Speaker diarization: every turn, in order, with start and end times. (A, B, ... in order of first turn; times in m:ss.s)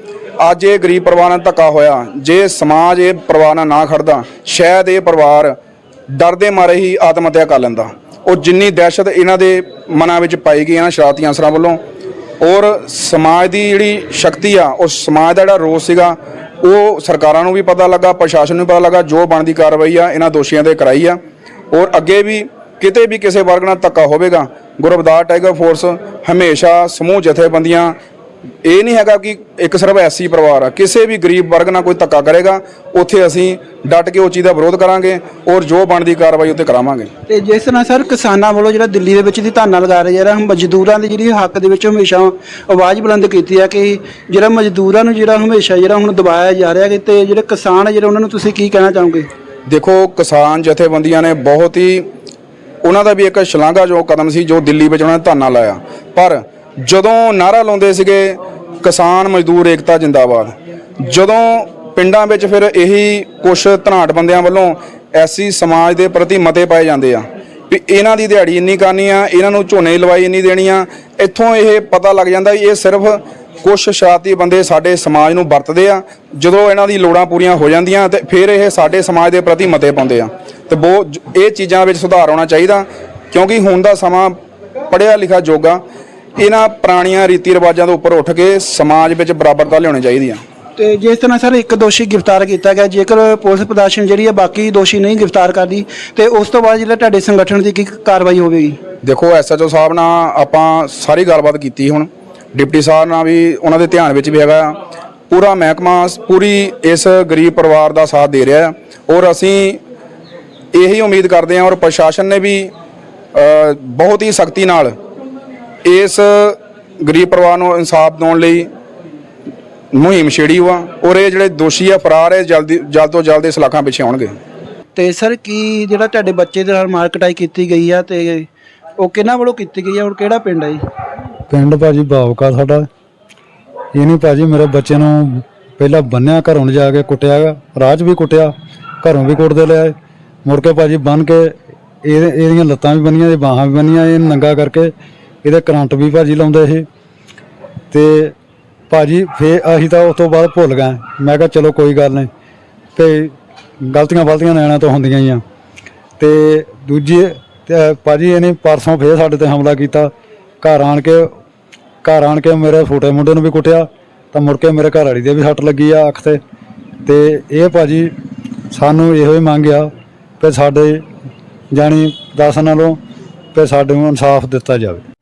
0:00.4-0:05.5 A
0:06.1-0:11.8 A
0:12.4-0:21.2 A
0:21.7-0:27.9 A
0:28.6-0:37.1 A
0:37.3-0:49.3 B
0:49.7-0:52.0 A
0:52.8-1:00.5 A
1:01.0-1:24.3 A
1:24.9-1:25.8 A
1:26.4-1:30.4 A
1:30.8-1:38.8 B
1:39.0-1:44.8 A
1:45.3-1:49.8 A
1:50.7-1:52.7 A
1:53.3-1:54.9 A
1:55.8-1:58.7 A
1:59.9-2:04.3 A
2:05.0-2:10.8 B
2:11.5-2:12.9 C
2:13.9-2:19.9 C
2:20.4-2:24.9 C
2:25.4-2:26.8 C
2:27.9-2:28.3 C
2:28.9-2:32.3 C
2:33.0-2:35.4 C
2:36.2-2:41.3 C
2:42.0-2:46.4 C
2:47.0-2:48.1 C
2:48.7-2:51.0 C
2:51.7-2:53.0 C
2:53.5-2:55.0 C